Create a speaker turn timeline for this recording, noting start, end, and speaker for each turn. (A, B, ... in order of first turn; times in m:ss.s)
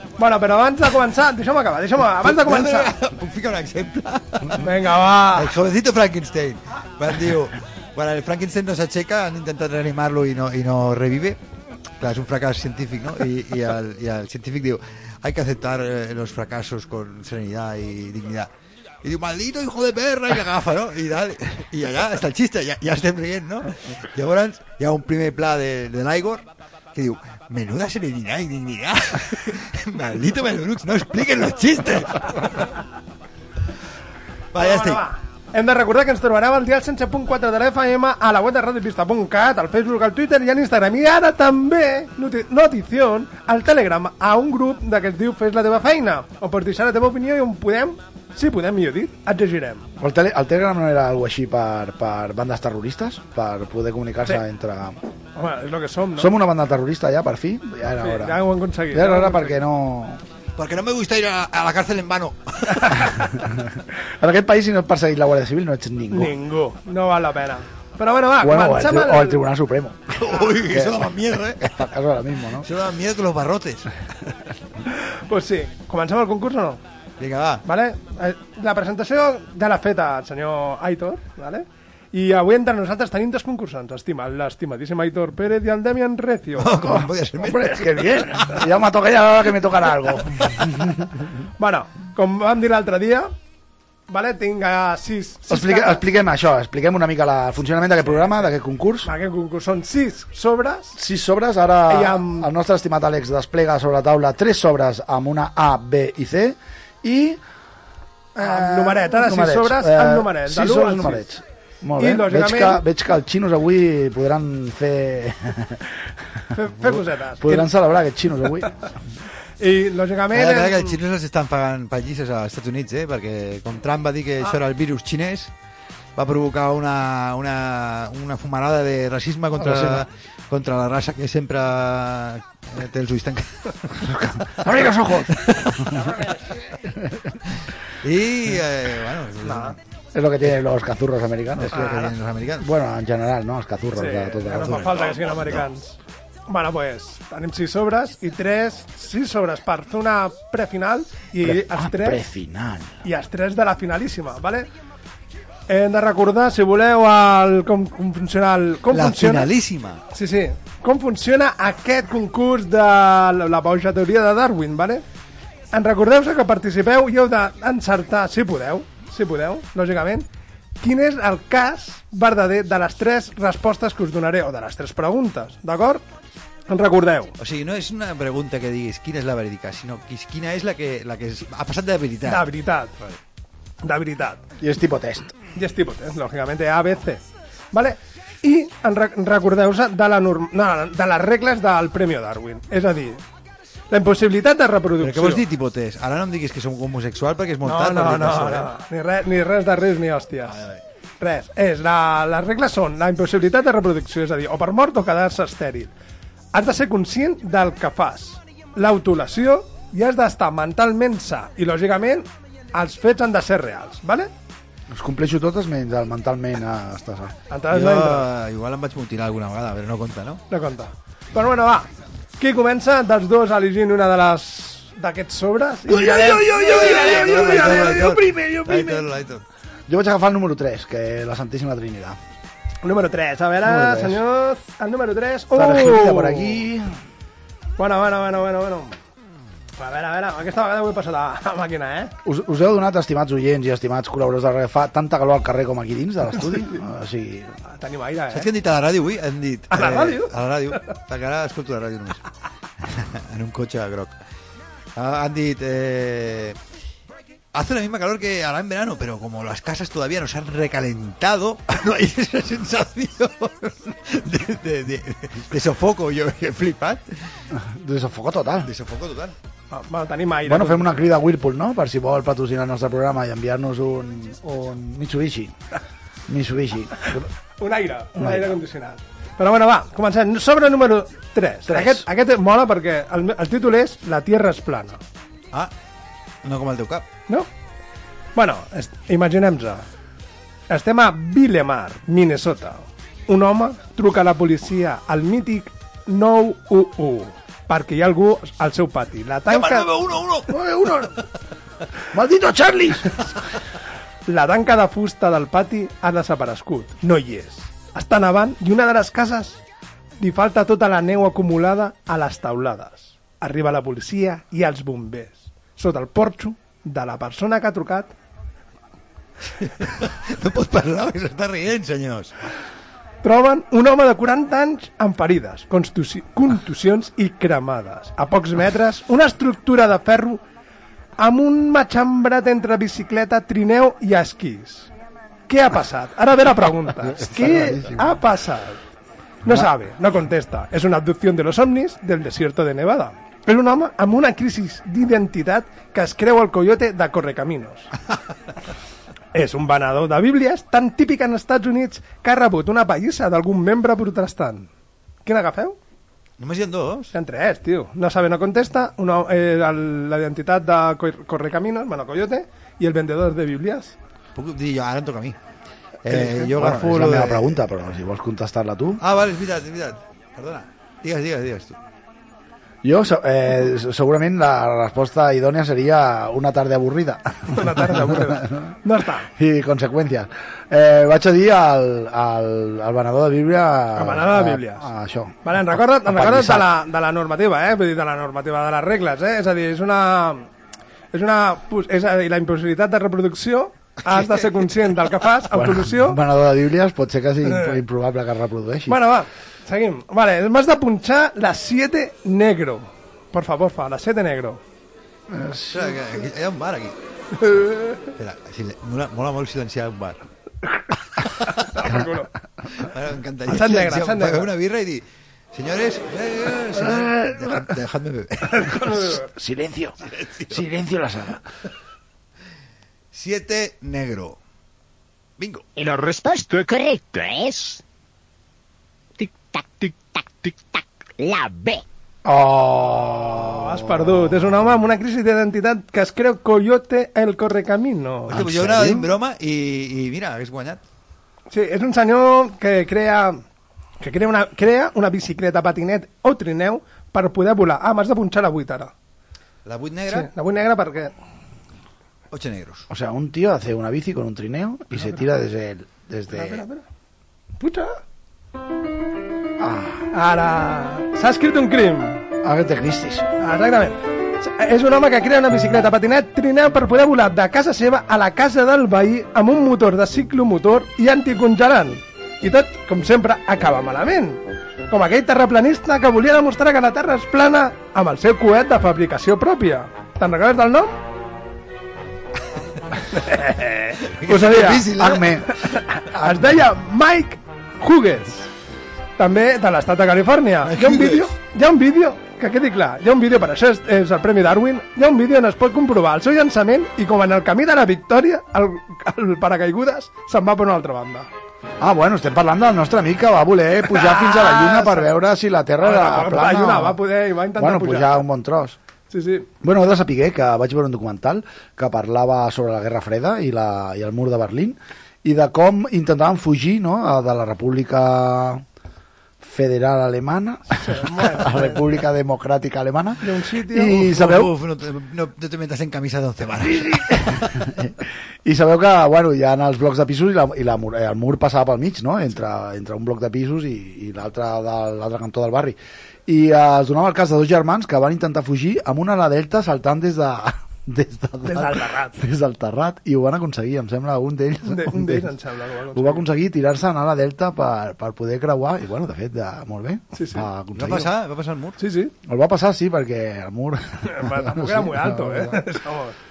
0:00.2-0:02.9 A
0:02.1-0:11.4 B
0:04.6-0:05.5 A
0:12.0-0:18.5 B
0:19.0-0:32.7 B
0:34.5-0:35.0 B
0:34.6-0:49.9 A
0:50.0-0:55.0 C
0:55.4-0:56.3 A
0:56.2-1:00.2 C
0:58.0-0:59.6 A
1:00.6-1:03.4 B
1:03.4-1:06.3 C
1:06.1-1:09.4 A
1:08.4-1:12.7 C
1:10.2-1:11.7 B
1:12.6-1:13.9 B
1:14.9-1:16.8 A
1:17.2-1:17.6 B
1:17.6-1:26.9 A
1:26.6-1:28.6 B
1:26.8-1:31.1 C
1:31.6-1:33.3 A
1:34.1-1:36.0 A
1:35.5-1:39.1 C
1:39.0-1:41.0 A
1:41.0-1:47.4 C
1:41.9-1:42.5 A
1:48.4-1:51.2 A
1:48.4-1:56.0 C
1:52.0-1:52.8 A
1:56.5-1:57.7 A
1:56.8-1:58.8 C
1:59.6-2:01.0 A
2:00.3-2:05.5 B
2:06.2-2:14.2 B
2:09.6-2:10.0 C
2:14.0-2:15.9 C
2:15.3-2:15.9 B
2:17.5-2:19.8 B
2:19.4-2:19.7 A
2:20.1-2:22.0 C
2:21.6-2:22.7 B
2:21.7-2:22.1 A
2:22.6-2:24.9 C
2:24.0-2:26.0 A
2:24.5-2:25.6 B
2:26.5-2:32.2 A
2:31.4-2:33.0 C
2:33.0-2:34.7 A
2:35.7-2:39.5 A
2:38.9-2:40.0 B
2:40.1-2:45.0 A
2:45.7-2:50.3 A
2:50.8-2:56.0 A
2:56.7-2:57.3 A
2:57.4-3:02.5 B
3:02.2-3:03.2 A
3:03.8-3:04.4 A
3:04.6-3:05.3 C
3:05.5-3:13.2 A
3:13.9-3:15.4 A
3:15.0-3:18.7 B
3:17.6-3:20.6 A
3:20.5-3:20.8 B
3:21.2-3:25.9 A
3:26.5-3:34.3 A
3:34.9-3:37.3 C
3:37.5-3:38.3 A
3:37.7-3:40.4 B
3:40.5-3:48.1 A
3:45.9-3:49.0 C
3:46.6-3:49.4 B
3:49.9-3:52.2 C
3:52.8-3:56.6 A
3:53.6-3:54.2 C
3:55.5-3:56.9 C
3:57.8-3:59.0 A
3:59.8-4:02.1 A
4:02.2-4:07.5 C
4:07.6-4:08.5 A
4:08.3-4:12.2 B
4:09.7-4:10.3 A
4:12.9-4:14.1 B
4:15.0-4:16.6 B
4:17.5-4:27.2 B
4:27.5-4:28.7 C
4:28.6-4:29.3 B
4:29.7-4:31.1 A
4:30.4-4:35.5 C
4:36.3-4:37.3 C
4:37.6-4:45.0 A
4:38.2-4:38.6 C
4:41.7-4:42.0 C
4:46.4-4:47.0 B
4:48.3-4:49.8 A
4:50.7-4:59.9 A
4:59.5-5:00.6 B
5:00.5-5:01.1 C
5:02.1-5:03.1 C
5:04.3-5:09.6 A
5:10.2-5:18.1 A
5:19.6-5:22.3 B
5:23.2-5:30.4 A
5:31.2-5:34.9 A
5:35.5-5:38.8 A
5:37.0-5:38.1 C
5:39.4-5:47.9 A
5:49.3-5:54.7 A
5:55.2-5:55.8 A
5:56.4-5:57.1 B
5:57.1-6:03.9 A
6:04.3-6:05.4 B
6:06.0-6:07.6 B
6:06.1-6:06.5 A
6:06.5-6:09.0 C
6:09.0-6:11.8 B
6:12.8-6:18.6 C
6:17.5-6:19.3 A
6:19.4-6:26.7 C
6:23.9-6:24.9 A
6:25.4-6:30.5 A
6:31.1-6:36.2 A
6:34.0-6:34.6 B
6:35.5-6:39.0 C
6:37.4-6:37.8 A
6:38.9-6:44.6 A
6:45.3-6:45.9 C
6:45.7-6:46.9 B
6:47.4-6:48.0 A
6:48.2-6:50.2 B
6:51.4-6:52.3 A
6:52.8-6:58.8 B
6:53.5-6:54.5 A
6:56.7-6:57.6 C
6:58.5-6:59.3 A
6:59.2-7:00.0 C
7:00.1-7:00.6 B
7:00.5-7:01.4 C
7:03.1-7:04.4 B
7:05.4-7:05.6 B
7:05.8-7:07.8 D
7:09.2-7:11.8 D
7:12.2-7:14.5 C
7:13.4-7:18.4 A
7:18.3-7:19.1 C
7:18.3-7:20.8 B
7:21.5-7:23.4 A
7:24.0-7:28.9 A
7:29.6-7:30.3 B
7:30.1-7:31.1 A
7:32.3-7:32.8 B
7:32.9-7:36.6 C
7:36.3-7:36.8 A
7:37.6-7:38.0 A
7:39.6-7:40.1 C
7:40.1-7:42.2 A
7:42.4-7:43.3 C
7:43.4-8:00.9 A
8:03.1-8:04.7 A
8:04.0-8:05.4 B
8:04.2-8:05.5 C
8:05.6-8:08.5 A
8:06.1-8:06.4 C
8:09.2-8:21.3 A
8:10.6-8:11.3 B
8:21.8-8:27.0 C
8:23.9-8:25.1 A
8:25.8-8:28.2 A
8:27.6-8:28.8 C
8:29.1-8:29.5 A
8:29.6-8:38.6 C
8:39.4-8:44.5 C
8:40.7-8:41.8 A
8:43.2-8:44.2 A
8:44.0-8:47.5 B
8:46.6-9:05.3 C
9:01.4-9:02.2 A
9:04.6-9:06.2 A
9:05.9-9:11.1 C
9:10.1-9:10.5 A
9:10.8-9:11.8 B
9:11.8-9:12.1 A
9:12.2-9:15.6 C
9:14.0-9:16.2 A